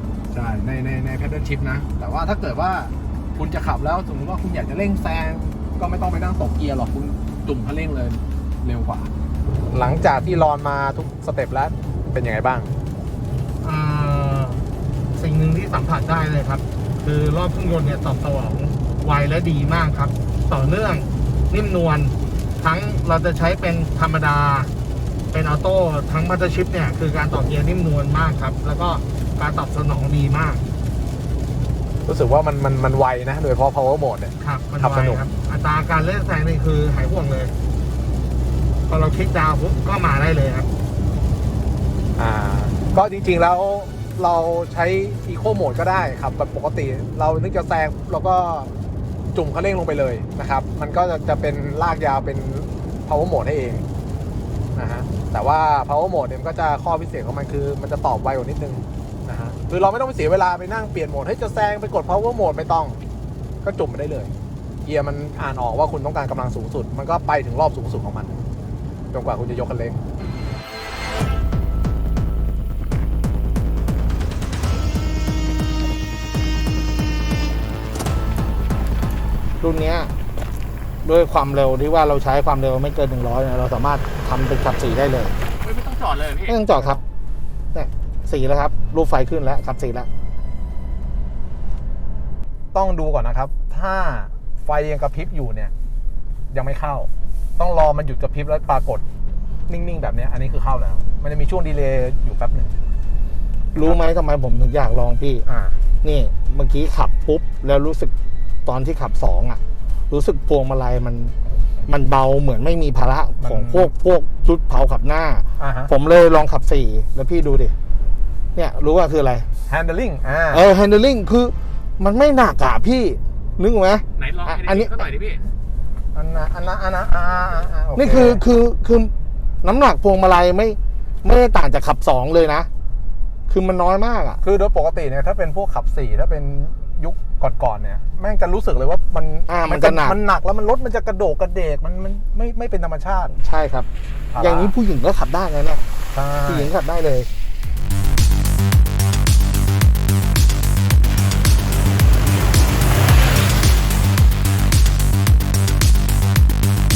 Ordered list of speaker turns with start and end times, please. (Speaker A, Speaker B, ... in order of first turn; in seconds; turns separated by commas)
Speaker A: 0.3-9.1, Speaker A: 9.7-12.7, Speaker B: 13.6-24.7, Speaker B: 25.3-30.6, Speaker A: 32.1-35.2, Speaker B: 34.4-37.5, Speaker B: 38.9-40.7, Speaker A: 42.2-48.7, Speaker A: 49.3-53.9, Speaker A: 54.8-63.0, Speaker A: 63.6-64.3, Speaker A: 64.8-68.4, Speaker A: 69.1-70.0, Speaker B: 79.6-80.1, Speaker B: 81.0-85.3, Speaker C: 85.6-86.6, Speaker B: 86.5-87.0, Speaker B: 87.7-90.1, Speaker A: 92.7-95.7, Speaker A: 96.5-99.0, Speaker A: 99.7-102.7, Speaker B: 103.7-105.5, Speaker A: 103.8-104.0, Speaker A: 105.5-105.8, Speaker B: 106.0-108.1, Speaker B: 108.7-111.3, Speaker B: 111.9-117.7, Speaker A: 113.4-113.9, Speaker A: 115.6-115.9, Speaker B: 118.5-119.5, Speaker A: 119.7-120.7, Speaker B: 120.5-125.1, Speaker C: 124.2-125.4, Speaker A: 126.1-128.4, Speaker B: 128.0-132.7, Speaker B: 133.5-134.4, Speaker A: 134.4-143.4, Speaker B: 139.5-140.2, Speaker B: 143.4-145.8, Speaker A: 144.3-144.7, Speaker A: 146.1-146.7, Speaker B: 146.5-147.3